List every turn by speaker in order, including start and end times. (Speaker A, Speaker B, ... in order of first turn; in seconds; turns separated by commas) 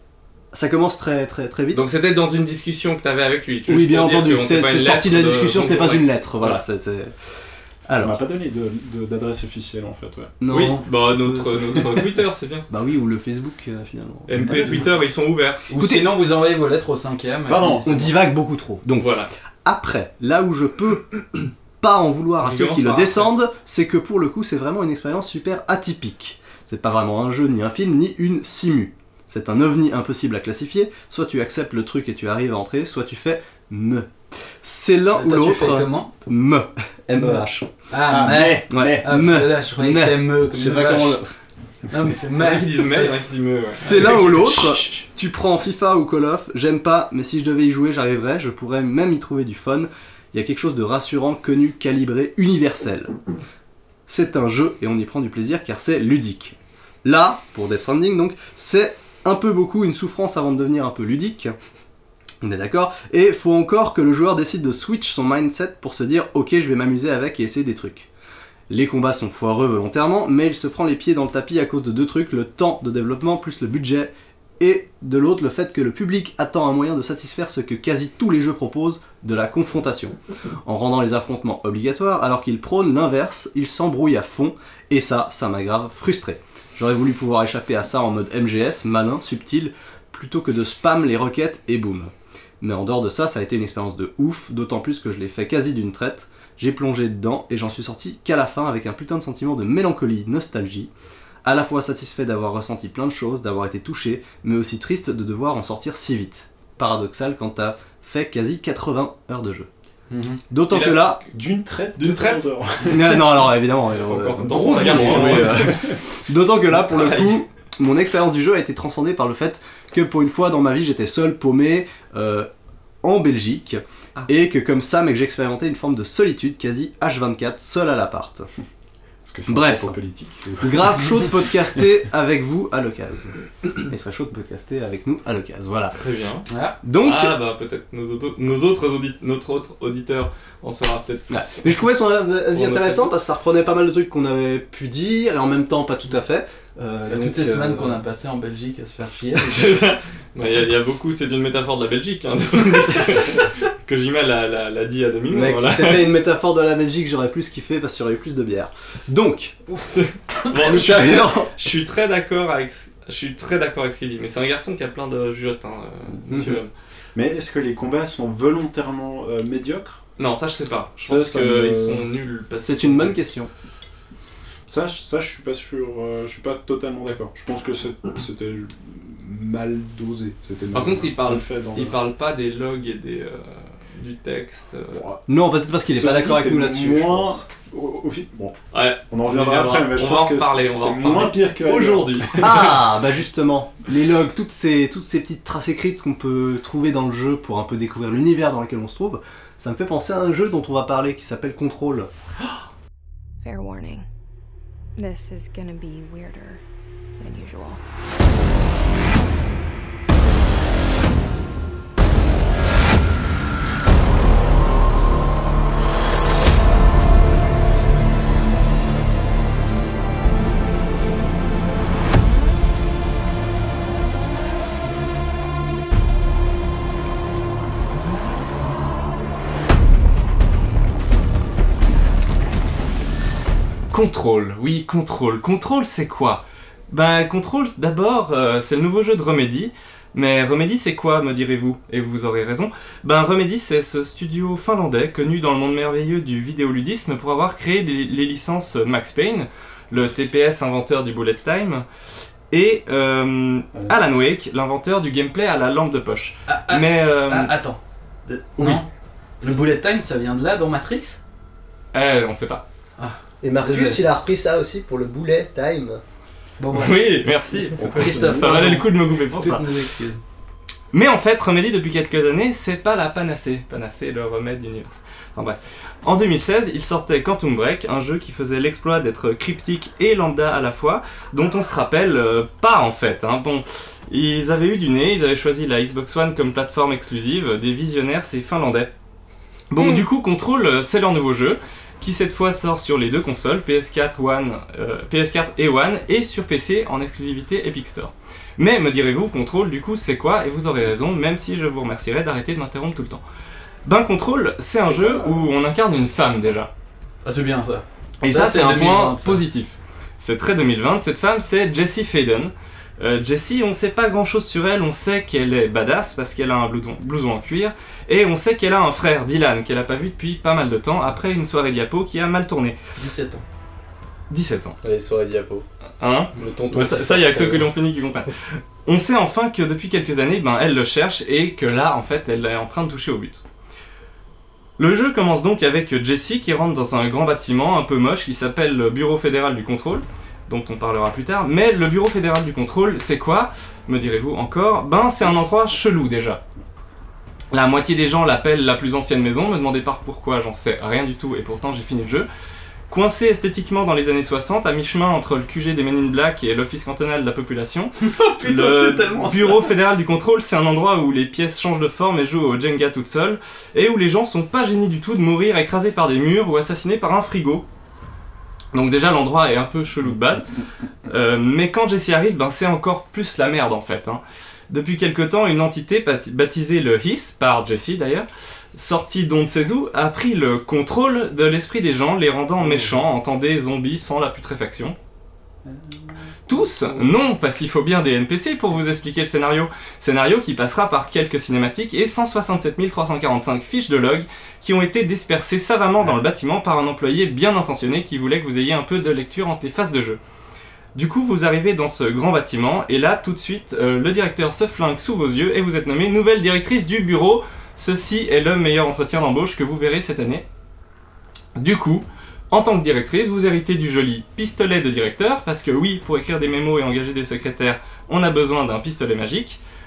Speaker A: 0.5-1.8, Speaker B: 1.7-6.1, Speaker A: 3.7-8.2, Speaker C: 8.0-10.3, Speaker A: 10.4-12.0, Speaker B: 10.5-12.7, Speaker A: 12.7-14.9, Speaker B: 14.3-15.7, Speaker C: 14.4-14.9, Speaker D: 15.7-18.2, Speaker A: 15.7-16.1, Speaker C: 17.5-17.9, Speaker A: 17.6-37.7, Speaker B: 19.0-19.3, Speaker B: 22.4-23.3, Speaker D: 35.1-36.1, Speaker D: 37.2-41.2, Speaker C: 38.1-39.1, Speaker A: 38.7-41.3, Speaker D: 41.9-43.1, Speaker B: 42.4-44.2, Speaker A: 43.8-53.1, Speaker C: 44.2-44.8, Speaker A: 54.1-61.5, Speaker A: 62.4-68.1, Speaker A: 68.7-100.9, Speaker A: 101.4-109.7, Speaker C: 110.1-110.4, Speaker A: 110.5-111.2, Speaker B: 110.7-111.3, Speaker C: 111.3-113.5, Speaker B: 112.0-112.4, Speaker A: 112.9-122.5, Speaker B: 114.0-115.8, Speaker C: 114.7-116.0, Speaker B: 116.7-117.4, Speaker A: 123.0-128.5, Speaker C: 129.2-131.9, Speaker A: 129.5-130.0, Speaker A: 130.6-136.0, Speaker B: 135.9-136.5, Speaker D: 136.5-136.8, Speaker A: 136.8-137.4, Speaker B: 137.0-141.8, Speaker A: 141.3-148.0, Speaker B: 142.5-143.1, Speaker D: 147.1-149.7, Speaker B: 149.4-156.1, Speaker A: 155.3-159.8, Speaker B: 159.9-166.7, Speaker A: 160.5-161.5, Speaker A: 166.3-166.6, Speaker C: 167.2-170.0, Speaker B: 170.2-173.2, Speaker C: 171.0-172.1, Speaker A: 172.6-173.5, Speaker C: 174.7-182.0, Speaker B: 180.7-185.0, Speaker C: 184.9-185.2, Speaker A: 185.3-187.4, Speaker C: 185.9-192.9, Speaker B: 188.7-192.8, Speaker A: 192.4-202.1, Speaker E: 203.4-204.1, Speaker E: 205.0-206.6, Speaker E: 207.2-207.8, Speaker B: 233.9-251.8, Speaker B: 252.5-257.5, Speaker D: 256.5-258.9, Speaker A: 258.3-258.8, Speaker D: 259.4-261.2, Speaker B: 261.9-262.6, Speaker D: 263.0-264.0, Speaker A: 263.4-266.0, Speaker D: 266.6-267.0, Speaker B: 266.7-269.9, Speaker C: 267.8-268.7, Speaker D: 267.8-270.2, Speaker B: 270.9-288.9, Speaker B: 289.7-303.2, Speaker B: 303.9-306.7, Speaker D: 304.9-305.4, Speaker D: 307.2-309.4, Speaker B: 308.2-322.8, Speaker D: 322.9-323.4, Speaker B: 324.3-324.8, Speaker A: 324.8-325.6, Speaker B: 326.0-333.4, Speaker A: 326.4-327.7, Speaker B: 334.8-346.4, Speaker B: 347.5-352.3, Speaker B: 352.9-367.6, Speaker D: 358.6-359.5, Speaker B: 368.7-370.5, Speaker B: 371.1-385.0, Speaker C: 385.6-387.1, Speaker B: 386.5-400.2, Speaker B: 400.9-410.4, Speaker B: 411.6-419.6